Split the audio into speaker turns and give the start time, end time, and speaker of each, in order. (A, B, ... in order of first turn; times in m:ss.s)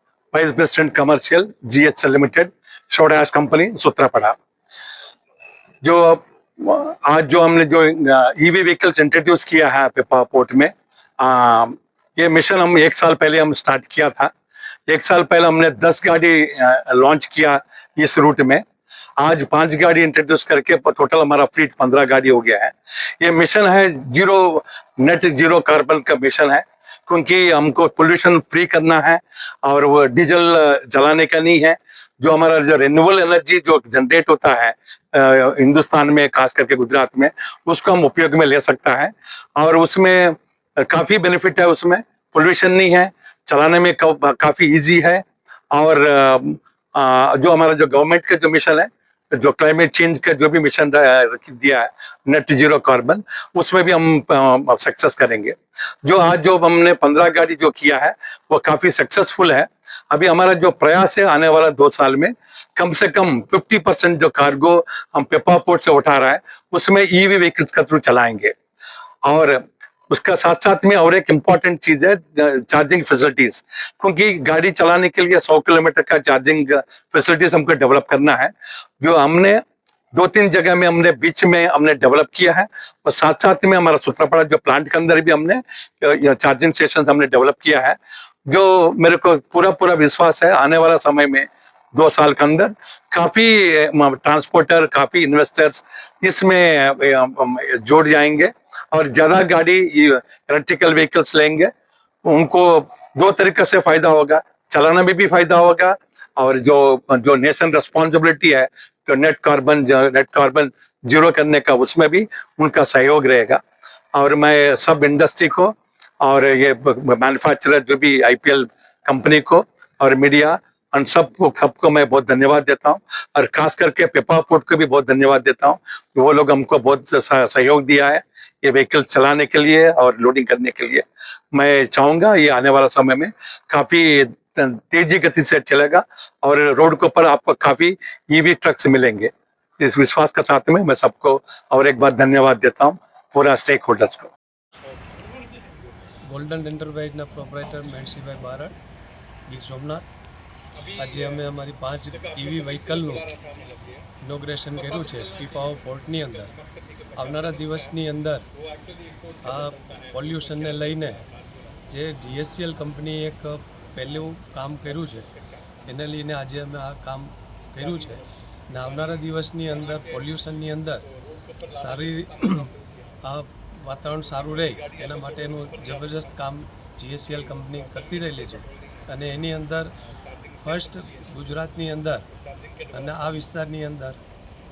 0:00.3-0:04.4 A
0:05.8-0:14.3 A
0:14.9-0:18.6 A
0:19.2-1:08.5 A
1:09.2-1:19.6 A
1:20.1-1:41.7 A
1:42.2-1:53.6 A
1:54.1-2:24.3 A
2:26.3-2:28.7 B
2:29.5-2:30.0 B
2:30.8-2:31.4 A
2:31.0-2:33.3 B
2:32.3-2:34.0 A
2:34.2-2:36.5 B
2:34.8-2:35.7 A
2:36.7-2:37.8 A
2:37.1-2:38.4 B
2:38.7-2:41.6 A
2:39.4-2:41.2 B
2:41.9-2:45.3 B
2:45.8-2:51.0 B
2:49.8-2:50.1 A
2:51.2-2:53.0 A
2:51.7-2:52.7 B
2:53.2-2:59.9 B
2:54.5-2:56.2 A
2:57.6-2:58.7 A
3:00.1-3:01.0 A
3:00.6-3:02.2 B
3:02.4-3:03.1 A
3:02.9-3:04.2 B